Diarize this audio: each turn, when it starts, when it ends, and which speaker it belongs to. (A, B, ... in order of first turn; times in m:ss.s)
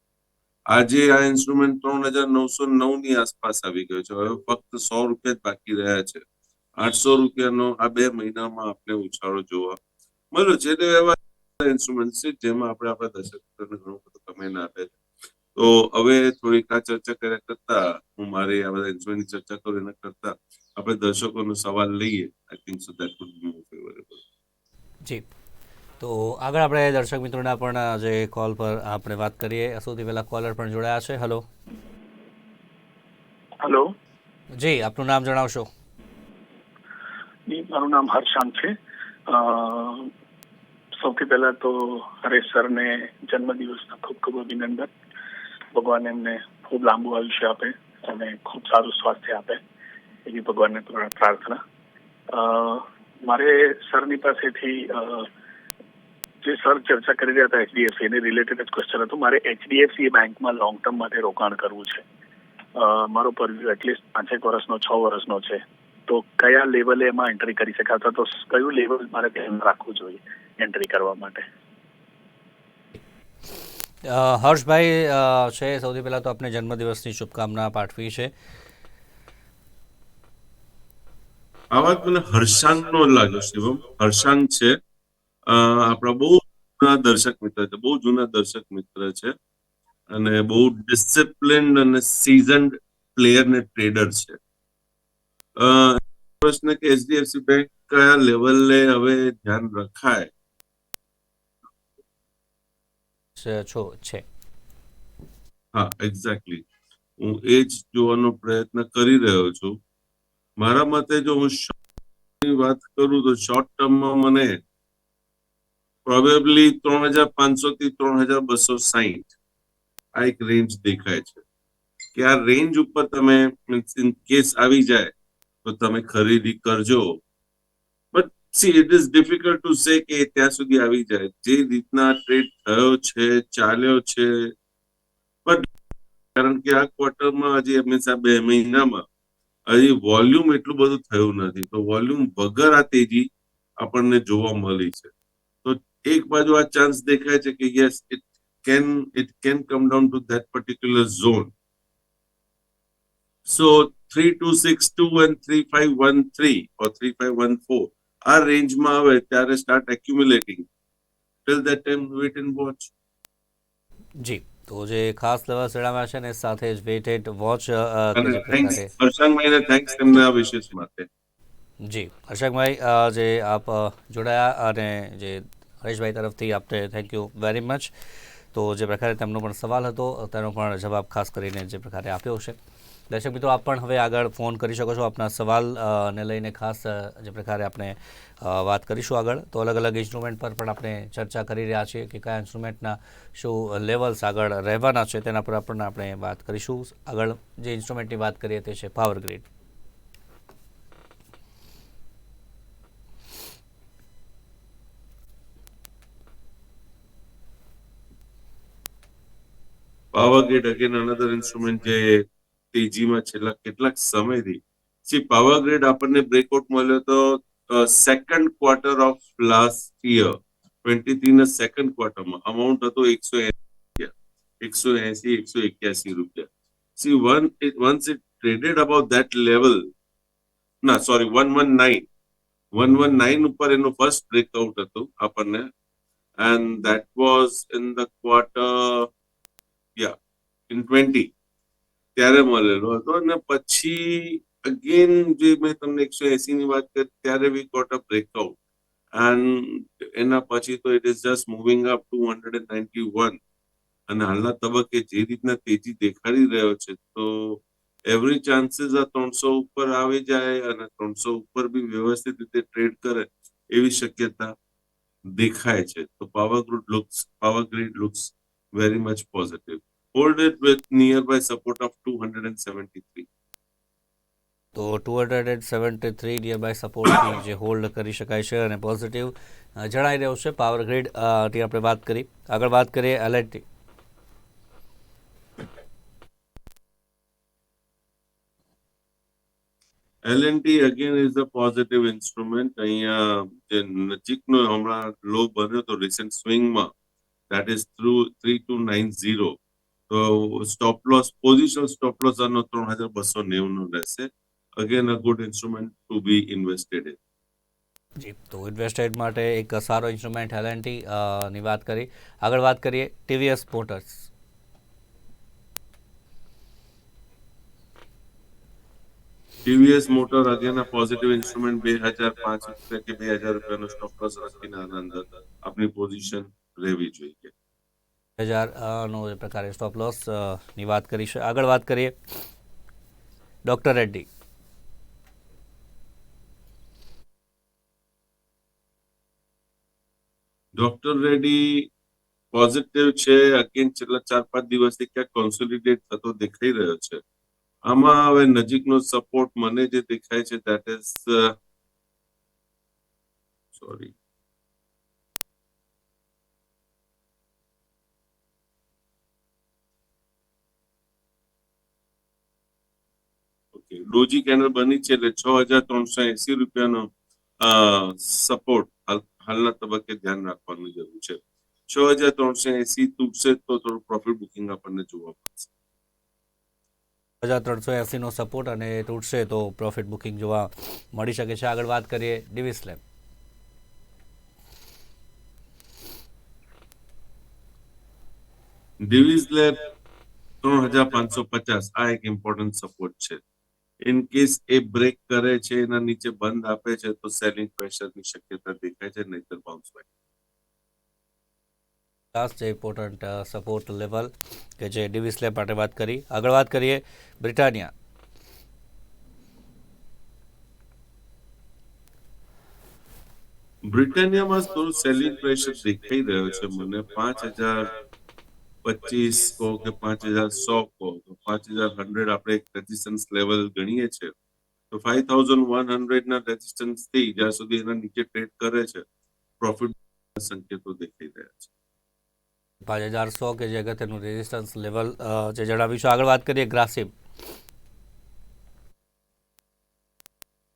0:00.7-0:06.2 A
0:06.8-0:09.8 A
0:10.3-0:14.9 A
0:15.6-0:24.2 A
0:26.0-0:31.4 B
0:33.6-0:33.9 C
0:34.6-0:35.7 B
0:37.5-0:38.7 C
0:39.3-0:40.1 C
0:41.0-0:44.9 C
0:45.7-0:49.6 C
0:50.3-0:51.6 C
0:52.3-0:55.3 C
0:56.4-1:02.0 C
1:02.8-1:11.4 C
1:14.0-1:18.3 B
1:21.7-1:24.8 A
1:25.5-1:29.4 A
1:30.1-1:34.4 A
1:35.6-1:40.3 A
1:43.4-1:44.2 B
1:45.8-1:46.6 A
1:47.2-1:49.8 A
1:50.6-1:51.8 A
1:52.4-1:54.6 A
1:56.0-1:59.3 A
2:00.2-2:01.4 A
2:02.2-2:05.1 A
2:05.6-2:07.2 A
2:08.1-2:14.5 A
2:16.4-2:19.0 A
2:19.7-2:25.1 A
2:25.6-2:31.5 A
2:33.5-2:40.7 A
2:41.5-2:42.9 A
2:44.2-2:48.9 B
2:48.2-2:51.1 A
2:51.8-2:57.9 B
2:58.5-3:02.6 B
3:03.1-3:19.5 B
3:30.1-3:49.9 A
3:50.8-3:52.1 A
3:52.7-3:55.7 A
3:56.4-3:59.1 A
4:00.7-4:01.3 A
4:02.2-4:08.6 A
4:09.2-4:13.4 A
4:14.1-4:24.5 A
4:25.3-4:33.3 A
4:34.8-4:43.6 B
4:50.2-4:56.9 A
4:57.5-4:59.6 A
5:00.1-5:07.2 A
5:08.2-5:14.3 B
5:19.6-5:27.5 A
5:28.4-5:32.2 B
5:33.6-5:34.3 B
5:40.8-5:41.9 A
5:42.5-5:47.2 A
5:47.9-5:51.5 A
5:53.7-5:54.1 A
6:03.7-6:07.1 A
6:07.6-6:15.7 A
6:17.4-6:23.0 B
6:29.0-6:29.8 A
6:30.6-6:33.4 A
6:34.0-6:40.1 A
6:42.3-6:47.9 B
6:53.8-6:57.9 A
6:58.8-7:04.3 A
7:04.9-7:09.0 A
7:09.6-7:11.7 A
7:12.8-7:17.1 B